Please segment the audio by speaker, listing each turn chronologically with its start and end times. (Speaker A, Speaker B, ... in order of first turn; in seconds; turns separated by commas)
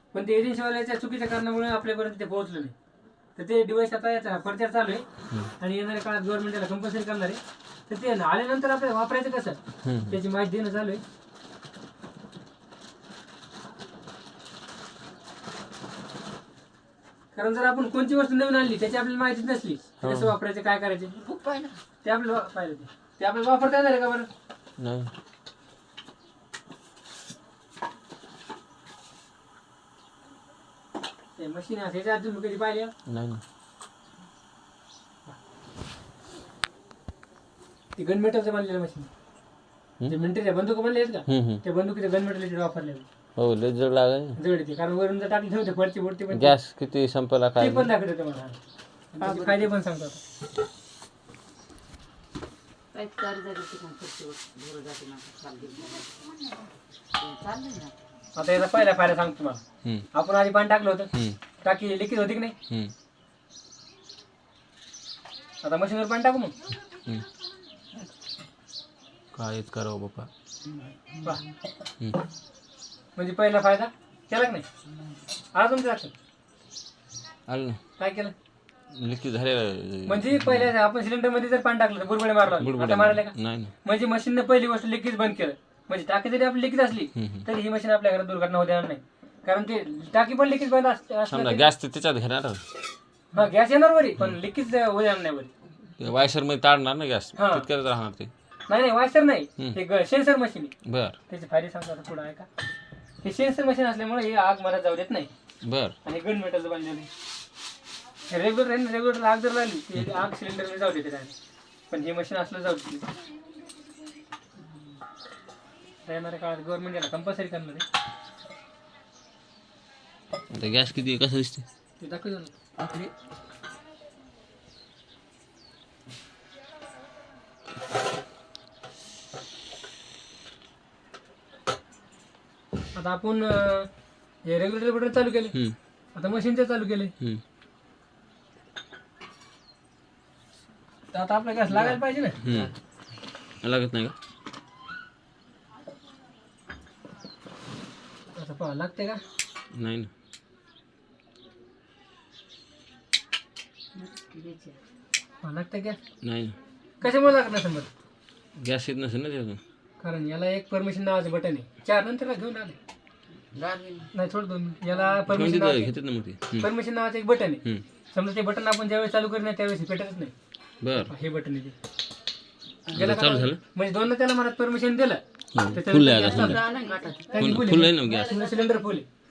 Speaker A: 0.1-2.7, Speaker A: 3.4-5.0, Speaker A: 5.6-11.0, Speaker B: 9.8-10.2, Speaker A: 17.3-21.1, Speaker B: 20.0-20.3, Speaker C: 21.2-21.8, Speaker A: 22.0-24.3, Speaker B: 24.8-25.1, Speaker A: 31.4-32.9, Speaker B: 33.1-33.4, Speaker A: 38.0-39.1, Speaker A: 40.1-43.1, Speaker B: 41.3-41.6, Speaker B: 43.4-44.4, Speaker A: 44.4-46.5, Speaker B: 46.3-47.9, Speaker A: 47.6-48.6, Speaker A: 49.1-50.2, Speaker C: 49.2-49.7, Speaker C: 52.9-56.6, Speaker C: 57.2-58.0, Speaker A: 58.4-59.6, Speaker A: 60.1-61.1, Speaker B: 61.1-61.4, Speaker A: 61.6-62.6, Speaker A: 65.6-66.5, Speaker B: 69.3-70.3, Speaker C: 70.7-71.5, Speaker A: 73.2-74.7, Speaker A: 75.5-76.1, Speaker B: 77.5-77.8, Speaker A: 78.0-78.3, Speaker B: 78.9-80.7, Speaker A: 80.1-91.7, Speaker B: 82.6-83.7, Speaker B: 87.2-87.5, Speaker B: 91.3-92.6, Speaker A: 93.3-95.5, Speaker B: 96.0-98.3, Speaker A: 97.4-97.7, Speaker A: 98.7-100.7, Speaker B: 100.8-101.2, Speaker A: 101.3-102.5, Speaker A: 103.2-105.3, Speaker B: 105.6-106.0, Speaker A: 106.0-107.1, Speaker A: 108.3-111.3, Speaker A: 111.9-113.1, Speaker A: 116.0-117.9, Speaker B: 120.5-121.7, Speaker A: 122.0-122.5, Speaker C: 122.8-123.1, Speaker A: 132.9-133.9, Speaker A: 134.5-135.6, Speaker A: 136.2-137.1, Speaker A: 141.1-142.4, Speaker C: 141.7-142.7, Speaker B: 142.4-142.7, Speaker B: 143.6-144.2, Speaker A: 148.4-149.2, Speaker B: 149.7-150.1, Speaker C: 154.0-154.8, Speaker A: 155.4-156.0, Speaker B: 156.2-156.6, Speaker A: 157.0-157.9, Speaker B: 158.6-159.6, Speaker A: 160.0-162.8, Speaker C: 163.5-164.1, Speaker A: 164.1-165.9, Speaker B: 165.2-166.7, Speaker A: 166.6-170.3, Speaker B: 170.8-171.1, Speaker A: 171.1-171.8, Speaker B: 172.9-173.6, Speaker A: 172.9-176.6, Speaker B: 175.6-176.6, Speaker C: 176.3-178.9, Speaker A: 177.3-179.1, Speaker B: 177.4-178.4